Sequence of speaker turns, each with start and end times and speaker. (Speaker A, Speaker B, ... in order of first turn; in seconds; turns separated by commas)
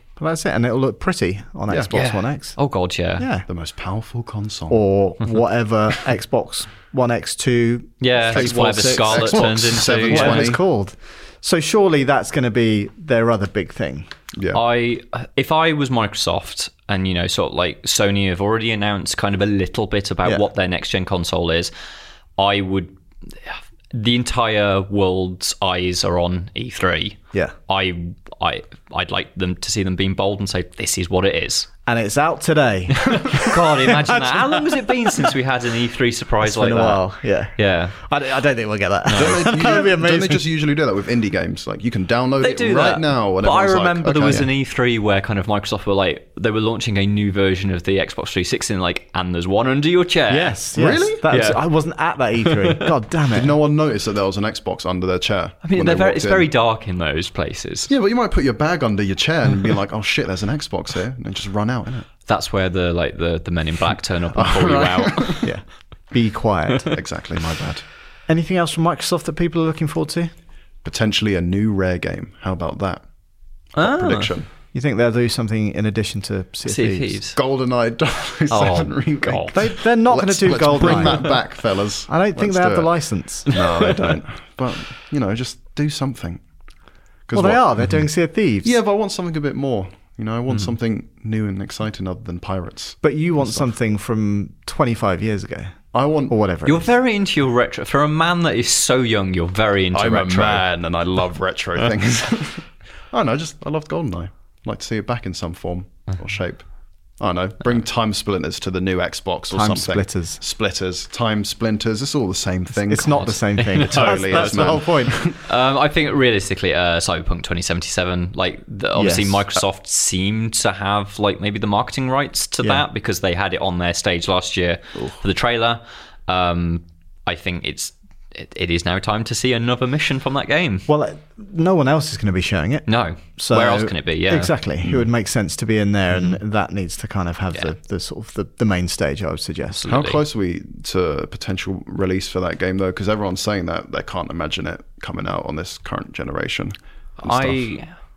Speaker A: 0.2-2.6, Speaker B: 1.9-3.3, Speaker A: 3.2-3.5, Speaker C: 3.5-4.8, Speaker A: 4.7-14.1, Speaker B: 8.0-10.5, Speaker C: 8.3-10.6, Speaker C: 14.3-14.6, Speaker B: 14.5-21.7, Speaker B: 22.4-31.7, Speaker A: 31.9-35.3, Speaker B: 33.1-37.0, Speaker A: 36.4-40.4, Speaker B: 37.6-37.9, Speaker C: 39.1-44.5, Speaker B: 42.4-50.6, Speaker A: 50.3-53.5, Speaker C: 50.8-51.2, Speaker B: 51.3-51.6, Speaker B: 52.4-52.9, Speaker C: 53.3-56.5, Speaker B: 55.6-57.9, Speaker C: 57.9-62.1, Speaker B: 62.3-65.5, Speaker C: 64.3-65.5, Speaker A: 65.4-66.9, Speaker C: 66.9-67.8, Speaker A: 68.3-70.3, Speaker C: 70.8-73.0, Speaker B: 73.8-74.3, Speaker C: 73.8-74.5, Speaker A: 74.7-77.2, Speaker B: 76.7-77.3, Speaker C: 77.3-82.9, Speaker B: 78.5-79.6, Speaker A: 79.5-81.4, Speaker B: 80.8-81.3, Speaker A: 82.1-83.5, Speaker C: 83.5-86.4, Speaker B: 83.5-84.1, Speaker C: 87.3-87.6, Speaker A: 87.3-88.8, Speaker C: 88.6-93.7, Speaker A: 93.0-96.9, Speaker C: 95.9-96.3, Speaker B: 96.6-100.7, Speaker C: 99.9-106.6, Speaker C: 107.2-115.4, Speaker A: 109.5-110.4, Speaker A: 112.9-115.2, Speaker B: 113.1-130.9, Speaker A: 118.9-119.4, Speaker A: 130.9-132.8, Speaker B: 132.9-134.5, Speaker A: 133.4-139.9, Speaker B: 139.8-140.2, Speaker C: 139.8-147.7, Speaker B: 147.2-147.9